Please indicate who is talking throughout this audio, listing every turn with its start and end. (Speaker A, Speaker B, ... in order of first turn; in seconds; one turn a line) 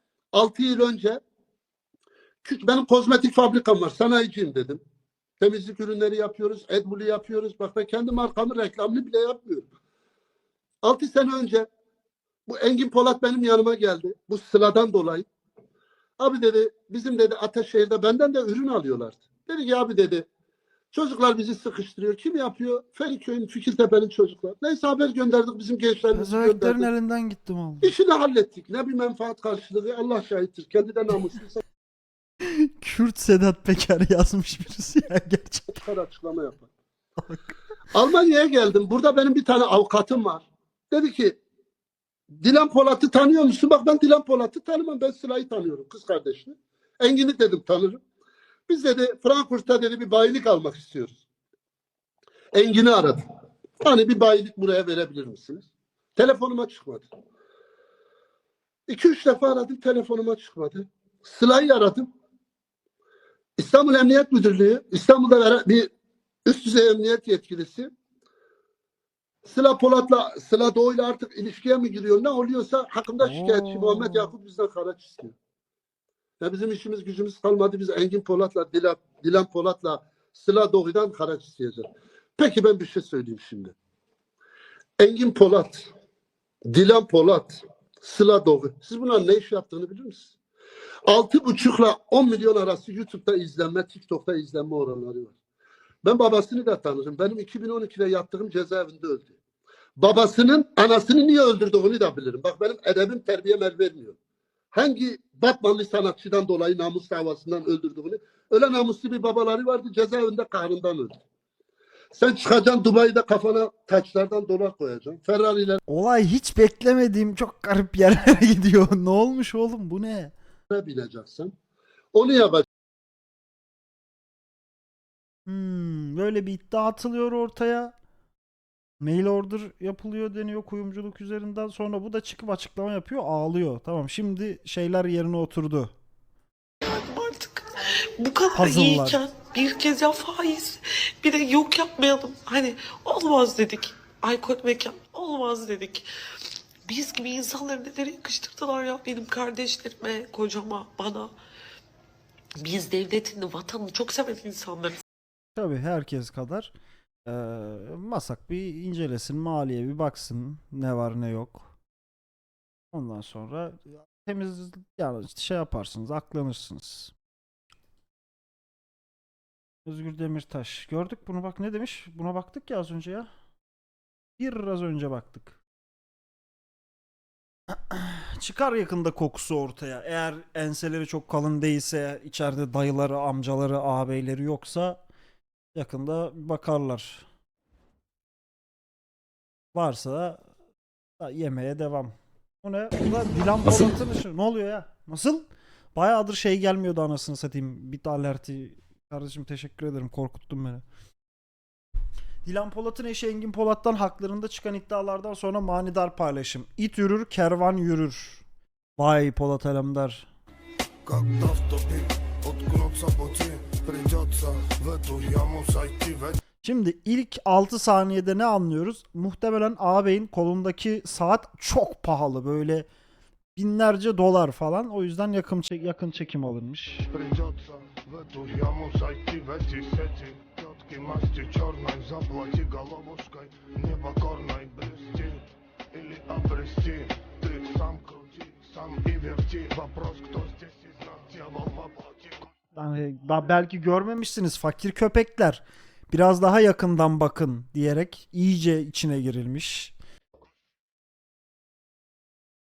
Speaker A: 0.3-1.2
Speaker A: 2.4-4.8
Speaker A: 5.4-9.7
Speaker A: 10.8-11.7
Speaker A: 12.4-15.2
Speaker A: 16.2-20.2
Speaker A: 20.9-26.9
Speaker B: 26.1-27.9
Speaker A: 27.8-31.6
Speaker B: 32.4-35.8
Speaker A: 35.8-36.7
Speaker A: 37.9-41.4
Speaker A: 42.4-48.0
Speaker A: 48.7-51.2
Speaker A: 52.5-53.2
Speaker A: 53.8-57.1
Speaker A: 58.9-62.0
Speaker A: 63.6-65.9
Speaker A: 66.4-67.9
Speaker A: 69.4-75.3
Speaker B: 73.2-74.3
Speaker A: 76.4-81.8
Speaker A: 82.4-83.7
Speaker A: 85.0-85.8
Speaker A: 86.7-90.3
Speaker A: 91.1-95.3
Speaker A: 96.0-99.3
Speaker A: 100.0-104.2
Speaker A: 104.7-111.2
Speaker A: 112.1-115.8
Speaker B: 115.9-120.3
Speaker A: 120.7-121.5
Speaker A: 122.1-122.6
Speaker B: 125.5-127.9
Speaker B: 129.0-135.9
Speaker C: 136.8-146.1
Speaker B: 138.5-139.2
Speaker C: 146.8-151.3
Speaker C: 152.6-155.0
Speaker B: 155.5-156.7
Speaker B: 157.2-161.7
Speaker B: 162.9-167.1
Speaker B: 169.8-173.3
Speaker B: 174.4-175.6
Speaker B: 177.7-185.0
Speaker B: 185.7-187.2
Speaker B: 189.7-190.5
Speaker B: 191.2-200.8
Speaker B: 202.4-208.4
Speaker B: 209.0-210.3
Speaker D: 211.0-216.4
Speaker B: 216.6-222.9
Speaker B: 223.6-227.1
Speaker D: 227.1-242.5
Speaker B: 242.8-249.9